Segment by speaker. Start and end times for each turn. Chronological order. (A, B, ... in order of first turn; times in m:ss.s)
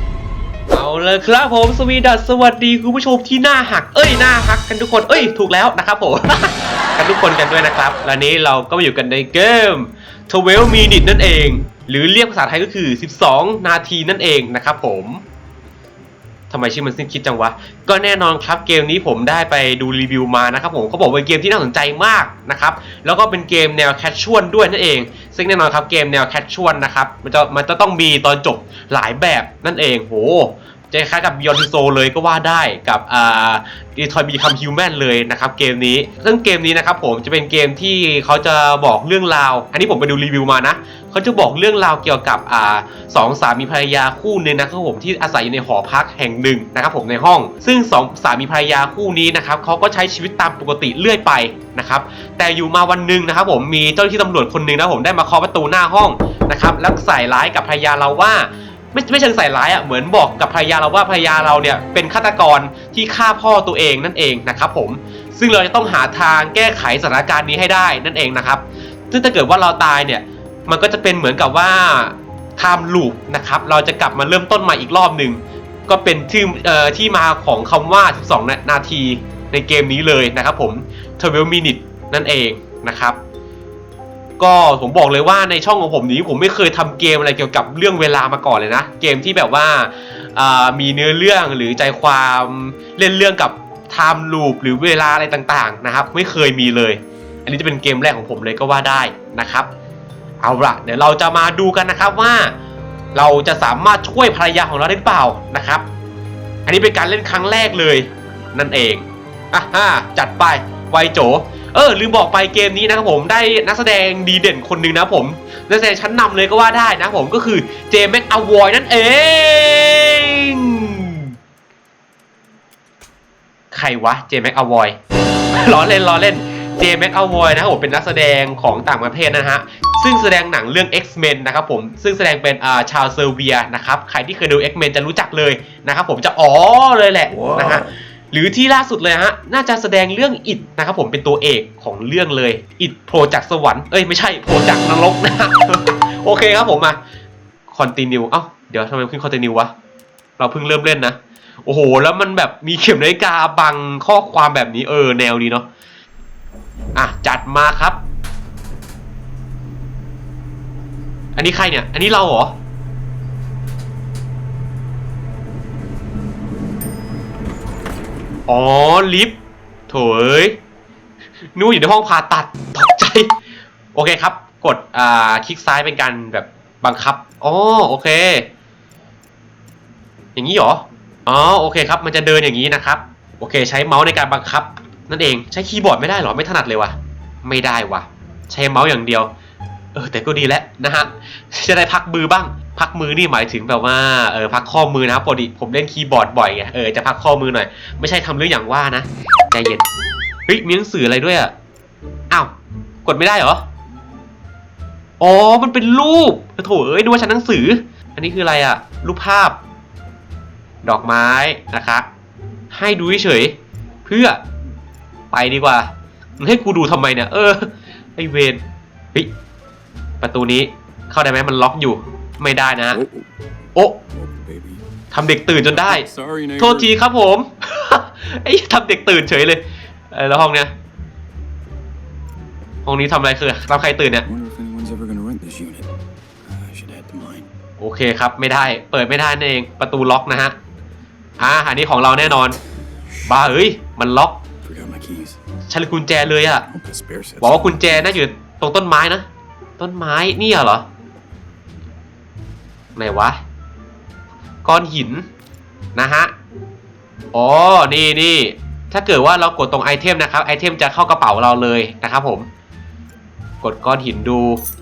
0:00.7-0:15.2 A
0:16.5-1:23.2 A
1:24.4-1:39.7 A
1:40.4-1:42.5 A
1:43.1-1:45.9 A
1:46.7-2:01.3 A
2:03.7-2:05.0 A
2:05.5-2:27.0 A
2:17.3-2:17.9 B
2:27.7-2:29.7 A
2:30.4-2:35.7 A
2:37.0-2:38.0 A
2:41.4-2:42.5 A
2:48.5-2:49.4 A
2:49.9-2:50.6 A
2:51.6-2:53.3 A
2:54.0-2:58.5 A
3:00.4-3:09.3 A
3:10.0-3:19.9 A
3:20.5-3:21.5 A
3:23.0-3:23.6 A
3:25.2-3:29.6 A
3:30.8-3:32.1 A
3:32.7-3:34.4 A
3:35.3-3:38.6 A
3:40.2-3:43.0 A
3:42.9-3:43.3 B
3:44.1-3:44.8 B
3:45.1-3:46.1 A
3:45.7-3:46.9 B
3:46.6-3:50.7 A
3:52.8-3:54.3 A
3:54.2-3:55.9 B
3:56.4-3:57.5 B
3:57.8-4:00.6 A
4:01.4-4:02.6 A
4:03.3-4:04.4 A
4:04.6-4:05.4 B
4:05.7-4:06.7 A
4:06.7-4:08.2 B
4:07.4-4:09.3 A
4:09.8-4:10.9 A
4:13.0-4:13.4 A
4:14.6-4:15.3 A
4:16.0-4:16.3 A
4:17.3-4:22.5 A
4:23.6-4:24.6 A